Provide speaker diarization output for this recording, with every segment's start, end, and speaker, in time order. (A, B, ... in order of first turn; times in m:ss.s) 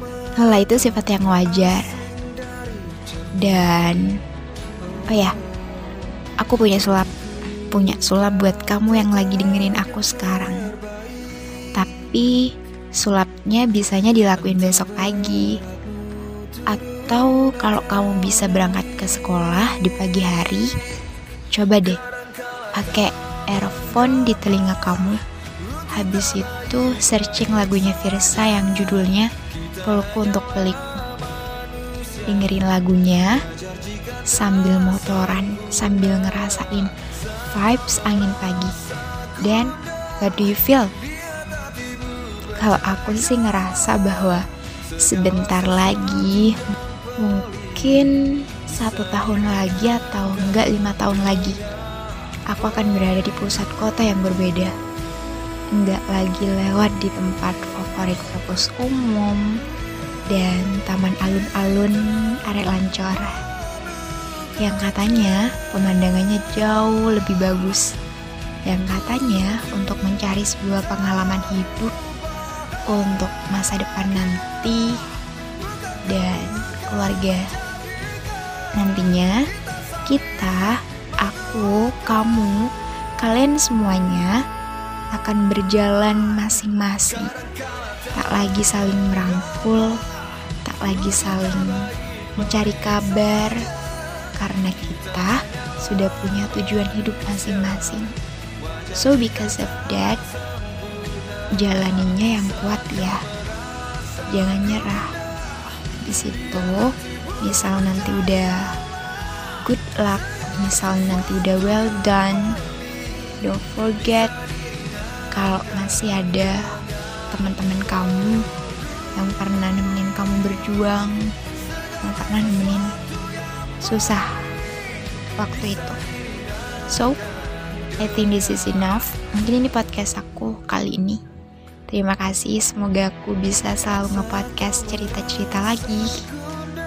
0:00.4-0:01.9 A
0:03.4-0:04.1 A
0:05.1-0:05.3 A
0:06.4-0:07.1 A
0:07.7-0:10.6 A
0:11.7-0:15.6 A
0:16.7-0:20.7 A
0:21.5-0:22.0 A
0:22.7-0:25.2 A
0:25.9-0:29.3 A
0:29.8-0:30.8 A
0:32.2-0:33.4 A
0:34.3-0:36.9 A
0:37.4-0:38.7 A
0:39.4-0:40.9 A
0:42.5-0:44.4 A
0:45.0-0:46.6 A
0:47.2-0:51.6 A
0:52.5-0:54.7 A
0:55.7-0:59.5 A
1:00.3-1:03.4 A
1:04.6-1:07.9 A
1:08.7-1:11.9 A
1:12.9-1:15.0 A
1:16.1-1:17.4 A
1:18.8-1:19.4 A
1:20.1-1:24.3 A
1:25.1-1:27.3 A
1:28.1-1:30.0 A
1:30.6-1:33.6 A
1:34.4-1:38.1 A
1:38.9-1:40.2 A
1:41.6-1:43.2 A
1:44.3-1:45.1 A
1:46.0-1:48.7 A
1:49.6-1:52.5 A
1:53.4-1:54.3 A
1:55.3-1:56.6 A
1:57.3-1:58.4 A
1:59.2-2:01.3 A
2:02.0-2:02.9 A
2:03.8-2:04.4 A
2:05.4-2:06.0 A
2:06.9-2:07.2 A
2:08.0-2:11.2 A
2:11.9-2:16.2 A